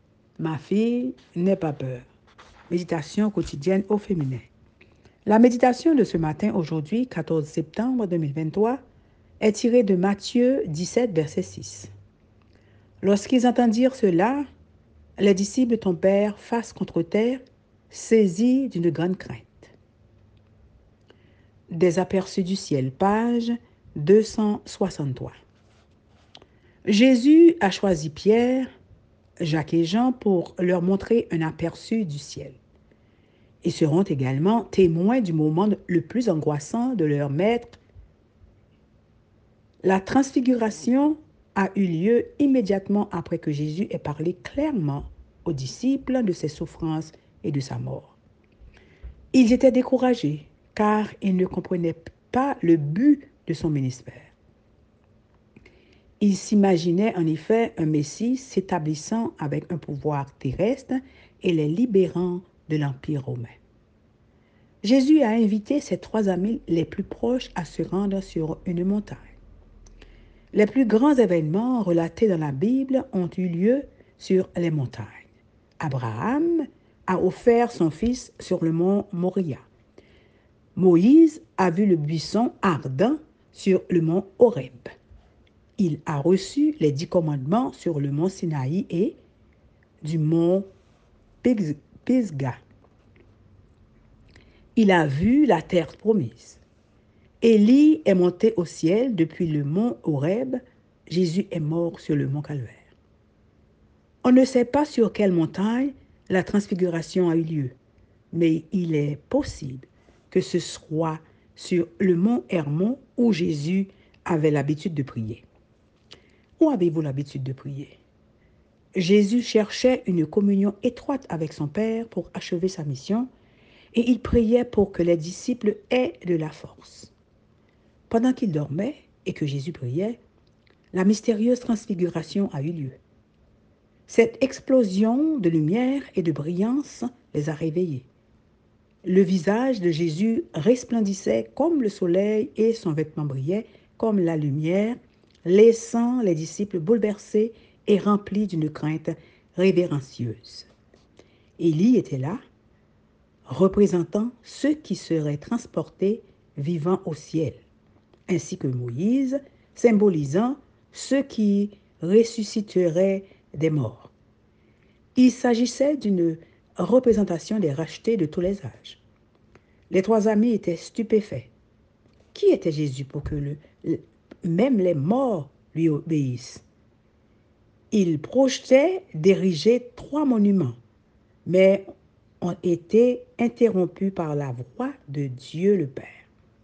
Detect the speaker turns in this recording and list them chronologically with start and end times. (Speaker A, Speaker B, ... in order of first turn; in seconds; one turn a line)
Speaker A: 0.4-2.1
Speaker A: 2.7-4.5
Speaker A: 5.2-8.8
Speaker A: 9.4-11.9
Speaker A: 13.0-14.4
Speaker A: 15.2-19.7
Speaker A: 21.7-25.3
Speaker A: 26.9-28.7
Speaker A: 29.4-32.6
Speaker A: 33.6-37.8
Speaker A: 39.8-48.2
Speaker A: 49.3-54.3
Speaker A: 56.2-63.5
Speaker A: 64.8-69.3
Speaker A: 70.5-75.2
Speaker A: 75.8-79.6
Speaker A: 80.8-84.9
Speaker A: 85.8-89.2
Speaker A: 90.0-90.7
Speaker A: 91.4-92.6
Speaker A: 94.8-96.6
Speaker A: 97.4-102.9
Speaker A: 104.2-107.8
Speaker A: 108.3-115.4
Speaker A: 116.6-118.0
Speaker A: 118.9-123.3
Speaker A: 123.9-127.1
Speaker A: 128.1-130.2
Speaker A: 130.9-133.0
Speaker A: 134.1-138.1
Speaker A: 139.0-150.7
Speaker A: 151.6-152.4
Speaker A: 153.5-157.6
Speaker A: 158.3-164.1
Speaker A: 165.2-169.0
Speaker A: 169.9-171.5
Speaker A: 172.3-176.6
Speaker A: 177.9-180.8
Speaker A: 181.4-181.8
Speaker A: 182.4-186.3